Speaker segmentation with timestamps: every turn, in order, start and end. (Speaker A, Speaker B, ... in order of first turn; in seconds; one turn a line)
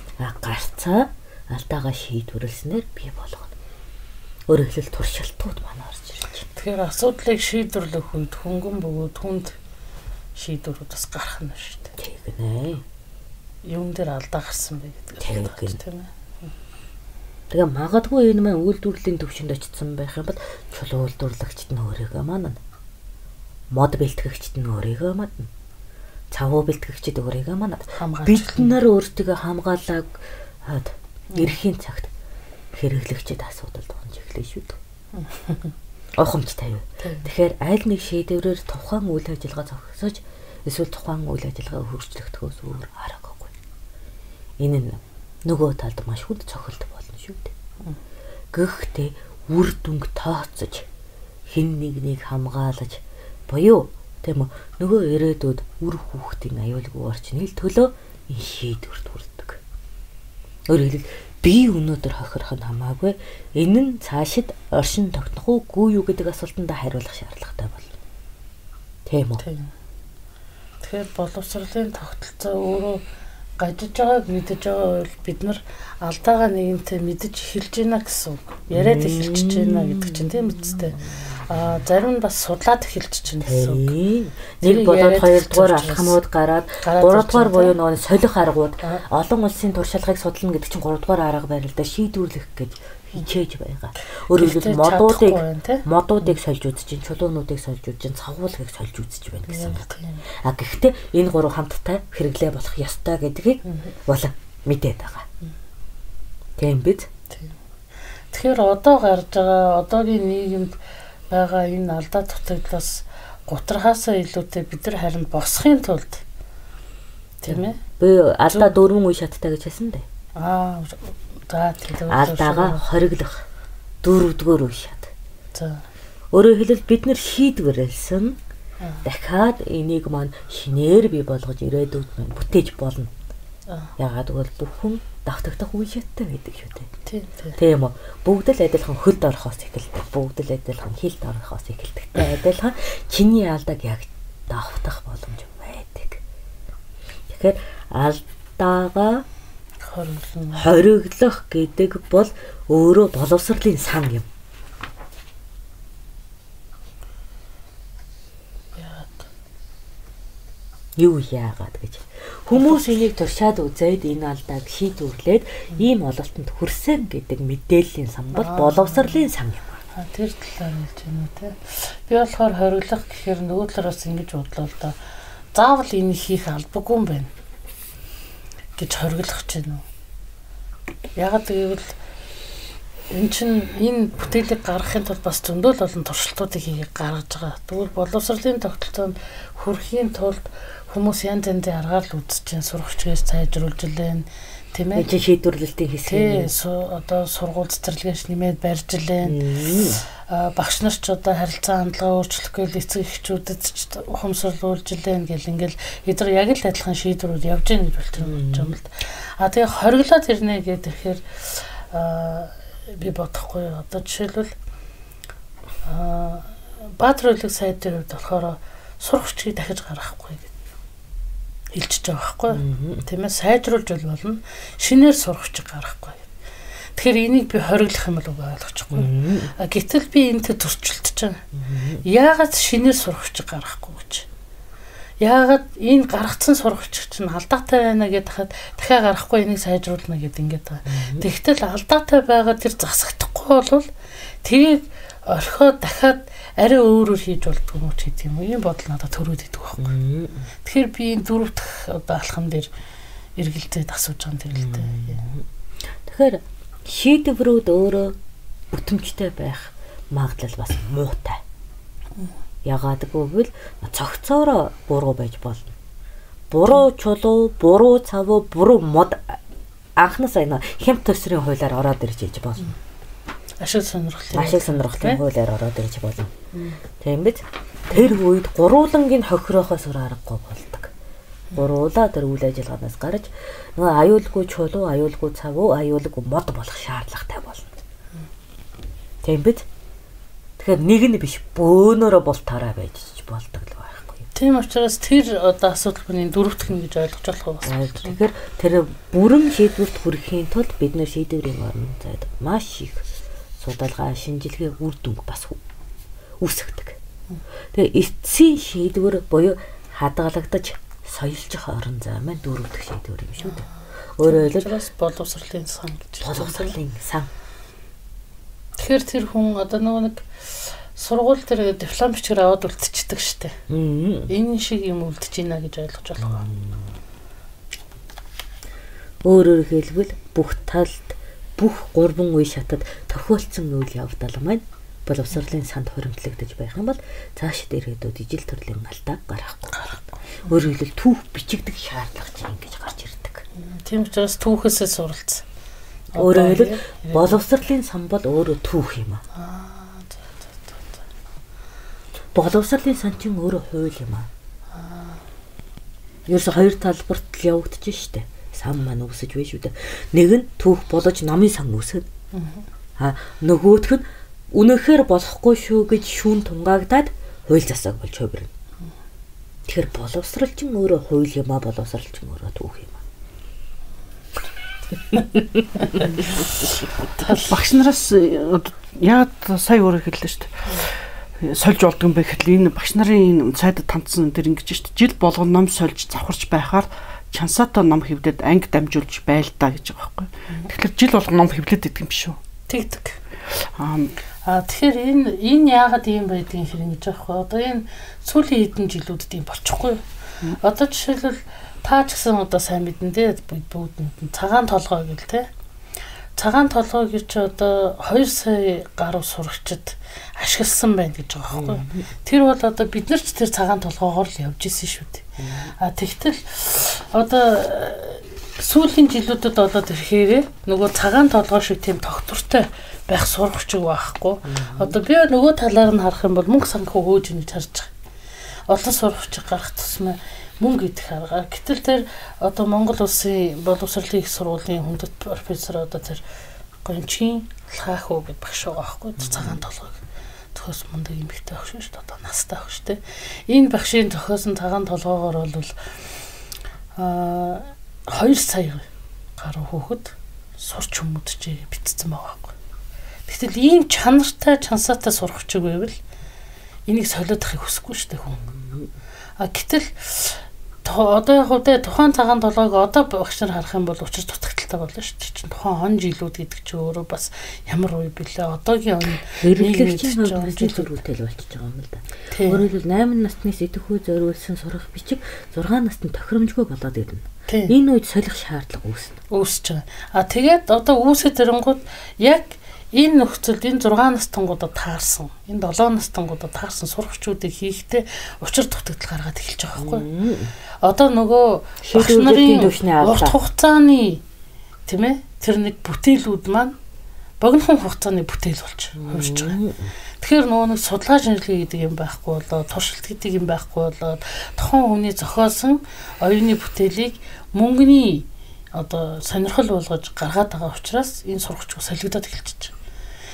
Speaker A: 0.2-3.5
Speaker A: 4.5-6.5
Speaker B: 6.5-9.6
Speaker B: 10.3-11.9
Speaker A: 12.0-12.8
Speaker B: 13.6-16.5
Speaker A: 15.2-15.8
Speaker A: 17.5-22.6
Speaker A: 23.7-25.5
Speaker A: 26.3-32.1
Speaker B: 27.9-28.8
Speaker A: 32.7-34.8
Speaker B: 35.1-35.7
Speaker A: 36.1-43.5
Speaker B: 37.0-37.3
Speaker A: 44.6-47.5
Speaker A: 48.5-50.9
Speaker A: 51.5-59.6
Speaker A: 60.7-67.9
Speaker A: 69.0-69.4
Speaker B: 69.4-69.7
Speaker B: 70.8-73.0
Speaker B: 73.6-83.9
Speaker A: 78.7-81.5
Speaker A: 83.4-105.2
Speaker B: 84.6-86.2
Speaker B: 86.8-87.8
Speaker B: 94.3-96.3
Speaker B: 99.5-100.2
Speaker A: 106.6-107.1
Speaker B: 108.3-110.8
Speaker B: 111.3-116.2
Speaker B: 117.4-117.8
Speaker A: 117.5-120.0
Speaker B: 120.4-122.8
Speaker A: 122.1-123.5
Speaker A: 124.0-125.1
Speaker B: 125.5-125.8
Speaker A: 126.3-128.4
Speaker A: 129.0-133.1
Speaker A: 134.0-136.9
Speaker B: 137.1-137.6
Speaker A: 137.6-146.2
Speaker A: 147.3-149.2
Speaker B: 149.8-150.7
Speaker A: 150.5-154.3
Speaker B: 158.8-159.2
Speaker A: 161.0-169.8
Speaker B: 162.5-163.0
Speaker B: 168.3-169.3
Speaker B: 169.9-175.0
Speaker B: 175.5-177.3
Speaker B: 178.8-179.8
Speaker B: 181.2-181.9
Speaker B: 183.1-195.1
Speaker A: 194.9-196.5
Speaker B: 196.1-199.4
Speaker A: 199.2-200.0
Speaker B: 200.1-214.5
Speaker A: 208.2-208.7
Speaker B: 215.8-220.5
Speaker B: 221.7-226.3
Speaker A: 222.5-223.1
Speaker B: 226.9-231.4
Speaker A: 228.9-229.5
Speaker A: 231.5-232.0
Speaker B: 232.0-234.3
Speaker B: 235.2-243.8
Speaker A: 240.8-241.2
Speaker B: 244.4-249.9
Speaker A: 249.8-250.5
Speaker B: 250.6-252.7
Speaker B: 253.4-255.2
Speaker A: 254.5-258.1
Speaker A: 258.7-261.4
Speaker A: 262.6-265.7
Speaker A: 266.5-269.4
Speaker A: 270.0-272.7
Speaker B: 273.6-275.2
Speaker A: 274.3-276.3
Speaker B: 276.5-276.8
Speaker A: 277.0-280.9
Speaker A: 281.5-287.7
Speaker A: 289.2-289.7
Speaker A: 290.6-294.3
Speaker B: 294.3-298.1
Speaker A: 297.6-303.1
Speaker A: 303.6-305.6
Speaker A: 306.4-307.0
Speaker A: 307.7-314.7
Speaker B: 314.2-316.8
Speaker A: 316.2-317.3
Speaker B: 318.8-323.6
Speaker A: 323.7-324.3
Speaker B: 324.3-326.4
Speaker A: 326.2-326.9
Speaker A: 329.2-339.9
Speaker B: 339.7-340.2
Speaker A: 340.4-343.4
Speaker B: 343.6-345.4
Speaker B: 346.1-347.4
Speaker A: 346.1-349.2
Speaker B: 349.3-350.9
Speaker A: 352.3-354.3
Speaker B: 354.7-355.2
Speaker A: 356.3-362.1
Speaker B: 362.3-362.6
Speaker A: 363.0-368.5
Speaker A: 369.6-373.0
Speaker B: 375.8-377.5
Speaker A: 375.9-376.2
Speaker C: 377.2-392.4
Speaker B: 392.7-393.2
Speaker C: 393.7-394.1
Speaker B: 394.4-400.0
Speaker B: 400.6-405.5
Speaker B: 406.4-427.9
Speaker A: 411.5-412.1
Speaker A: 415.4-415.7
Speaker A: 424.4-425.0
Speaker B: 428.7-436.2
Speaker B: 436.8-440.0
Speaker A: 439.2-439.6
Speaker B: 440.5-445.8
Speaker B: 446.9-448.8
Speaker B: 449.4-452.5
Speaker B: 453.3-456.0
Speaker B: 456.9-458.4
Speaker A: 458.4-458.9
Speaker B: 459.4-470.9
Speaker A: 469.2-479.2
Speaker B: 472.3-472.6
Speaker B: 477.5-477.7
Speaker B: 479.3-490.1
Speaker A: 489.8-490.5
Speaker B: 490.8-494.2
Speaker A: 491.8-493.4
Speaker B: 494.9-496.8
Speaker B: 497.4-499.6
Speaker A: 498.9-499.9
Speaker B: 500.2-512.7